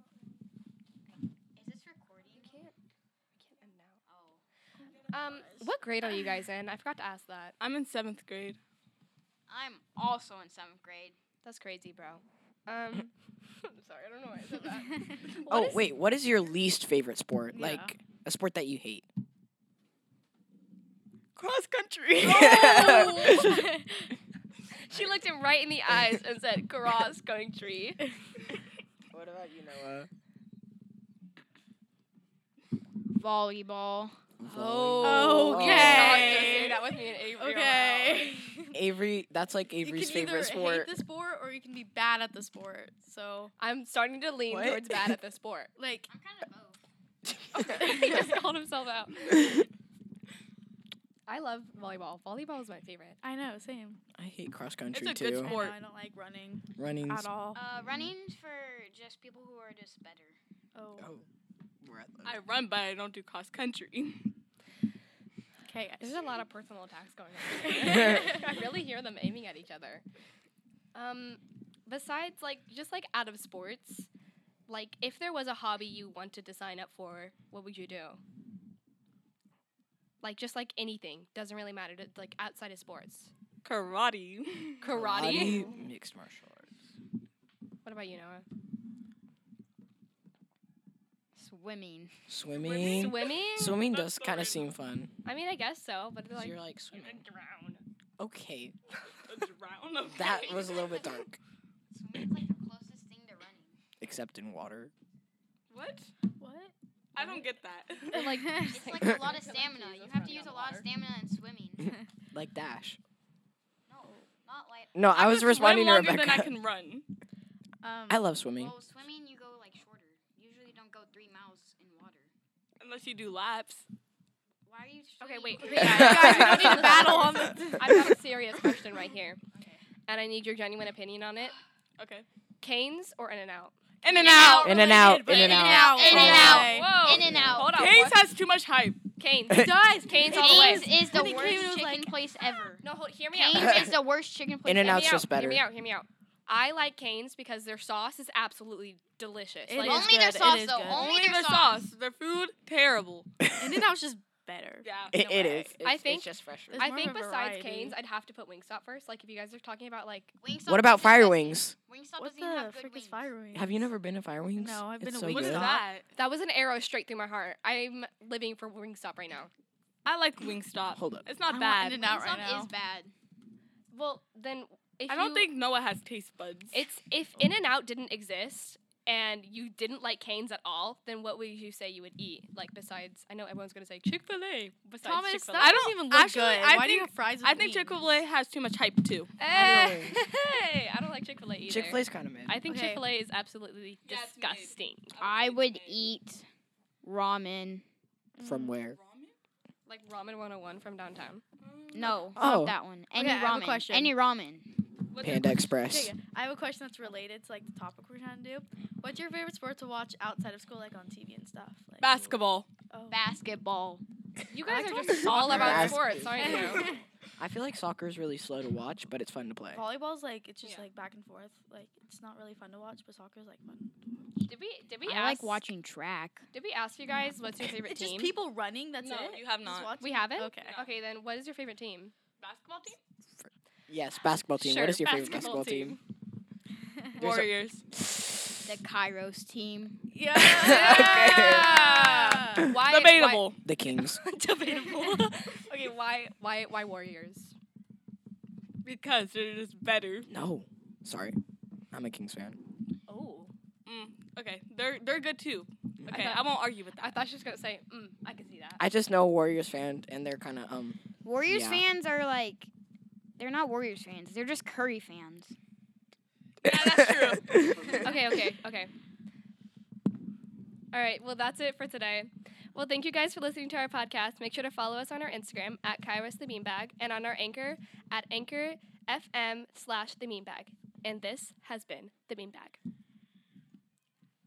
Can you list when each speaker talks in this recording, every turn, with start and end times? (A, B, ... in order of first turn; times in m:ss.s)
0:01.1-0:02.6 A
0:02.3-0:02.7 B
0:03.4-0:04.0 B
0:04.1-0:04.4 A
0:05.1-0:07.6 B
0:05.3-0:05.6 C
0:07.6-0:08.6 D
0:09.5-0:11.2 A
0:11.4-0:15.9 B
0:15.5-0:19.1 E
0:17.5-0:17.9 C
0:21.4-0:23.6 D
0:22.2-0:23.5 E
0:22.3-0:23.9 C
0:24.7-0:28.0 B
0:29.1-0:30.1 E
0:33.1-0:36.1 A
0:34.4-0:36.5 E
0:35.0-0:38.8 C
0:35.6-0:38.4 B
0:38.7-0:40.9 E
0:39.8-0:43.5 C
0:43.6-0:45.7 B
0:44.5-0:45.0 E
0:45.8-0:46.1 C
0:46.1-0:46.8 A
0:47.6-0:49.5 B
0:47.6-0:48.3 C
0:51.3-0:53.2 B
0:53.2-0:54.0 C
0:54.2-0:55.6 E
0:54.9-0:55.8 D
0:55.4-0:57.6 C
0:56.8-0:57.3 E
0:57.5-1:00.4 A
0:57.8-0:58.1 E
1:00.7-1:01.1 C
1:01.0-1:01.2 E
1:01.8-1:02.4 E
1:02.2-1:04.3 D
1:05.6-1:06.3 C
1:06.0-1:10.0 B
1:10.9-1:14.1 B
1:14.7-1:18.2 B
1:20.2-1:23.3 B
1:23.6-1:25.6 D
1:24.8-1:25.7 B
1:24.9-1:26.7 E
1:27.8-1:28.4 B
1:31.3-1:32.2 A
1:32.3-1:35.1 E
1:32.5-1:33.2 D
1:32.7-1:33.8 B
1:33.8-1:34.7 D
1:35.2-1:37.8 B
1:36.3-1:37.2 E
1:38.2-1:38.7 E
1:39.2-1:40.7 D
1:40.1-1:41.4 E
1:40.2-1:41.2 A
1:41.9-1:43.8 A
1:44.0-1:44.9 E
1:45.7-1:46.1 D
1:46.4-1:47.4 C
1:47.1-1:48.3 D
1:48.1-1:50.9 B
1:48.4-1:48.6 C
1:48.6-1:52.0 A
1:52.3-1:53.0 E
1:53.9-1:55.1 A
1:54.9-1:56.5 E
1:55.1-1:57.0 D
1:57.8-1:58.2 C
1:58.1-1:58.7 E
1:58.5-2:02.3 A
2:02.8-2:03.8 D
2:04.6-2:07.3 A
2:05.2-2:09.4 B
2:05.8-2:06.9 E
2:05.9-2:08.1 C
2:10.1-2:11.5 B
2:12.0-2:12.2 D
2:12.6-2:15.0 B
2:14.0-2:14.8 D
2:14.1-2:14.7 A
2:14.6-2:17.1 C
2:14.6-2:16.7 E
2:15.2-2:17.7 A
2:16.0-2:18.2 B
2:17.2-2:17.5 E
2:17.5-2:19.0 D
2:19.2-2:20.9 B
2:19.5-2:22.6 C
2:20.3-2:25.1 A
2:22.8-2:23.9 B
2:24.6-2:25.6 E
2:24.8-2:30.2 B
2:29.6-2:31.1 C
2:29.7-2:31.8 A
2:30.9-2:33.3 D
2:33.5-2:35.3 C
2:34.8-2:35.2 D
2:35.1-2:36.9 E
2:35.8-2:40.3 B
2:36.7-2:38.0 C
2:40.4-2:43.3 A
2:40.7-2:41.7 E
2:42.2-2:43.9 C
2:43.5-2:45.8 E
2:44.6-2:45.8 C
2:45.2-2:46.1 D
2:46.1-2:49.5 B
2:50.0-2:52.0 D
2:50.9-2:51.3 E
2:51.4-2:52.7 C
2:51.9-2:53.1 A
2:53.9-2:55.5 B
2:55.1-2:56.8 D
2:56.7-3:05.8 B
3:05.0-3:08.1 C
3:05.6-3:09.3 D
3:09.4-3:15.2 B
3:09.5-3:10.2 E
3:09.7-3:10.0 C
3:11.7-3:12.6 E
3:12.6-3:13.1 C
3:14.0-3:16.1 D
3:15.2-3:16.5 A
3:17.0-3:17.8 A
3:18.4-3:18.8 C
3:18.4-3:19.0 E
3:18.9-3:19.4 D
3:19.8-3:21.4 B
3:21.6-3:22.2 D
3:21.9-3:24.7 A
3:22.3-3:22.8 E
3:23.1-3:24.2 C
3:25.1-3:25.7 D
3:25.2-3:26.1 E
3:25.9-3:32.3 C
3:32.0-3:32.7 D
3:32.9-3:33.3 C
3:33.1-3:34.0 A
3:34.5-3:36.9 B
3:34.6-3:36.7 C
3:35.3-3:36.5 E
3:37.4-3:39.8 E
3:39.7-3:43.9 C
3:40.6-3:40.9 D
3:44.4-3:45.7 B
3:45.0-3:46.5 A
3:46.5-3:48.3 B
3:47.9-3:50.8 C
3:49.0-3:49.9 D
3:50.0-3:52.1 B
3:50.6-3:50.9 D
3:52.4-3:53.0 D
3:53.9-3:56.0 E
3:54.6-3:56.0 B
3:57.1-3:57.8 D
3:57.2-3:57.5 E
3:58.6-4:00.0 A
4:00.1-4:02.7 C
4:00.3-4:01.7 E
4:00.6-4:07.5 B
4:02.9-4:03.6 D
4:03.6-4:04.2 E
4:04.6-4:05.5 D
4:08.8-4:10.3 D
4:10.3-4:11.4 E
4:11.9-4:12.6 E
4:13.1-4:13.5 B
4:13.8-4:17.2 D
4:16.1-4:16.4 B
4:17.0-4:18.8 B
4:18.8-4:21.8 E
4:21.2-4:22.7 A
4:23.4-4:25.5 A
4:26.6-4:27.9 D
4:26.7-4:28.0 E
4:28.0-4:28.9 B
4:30.9-4:42.8 B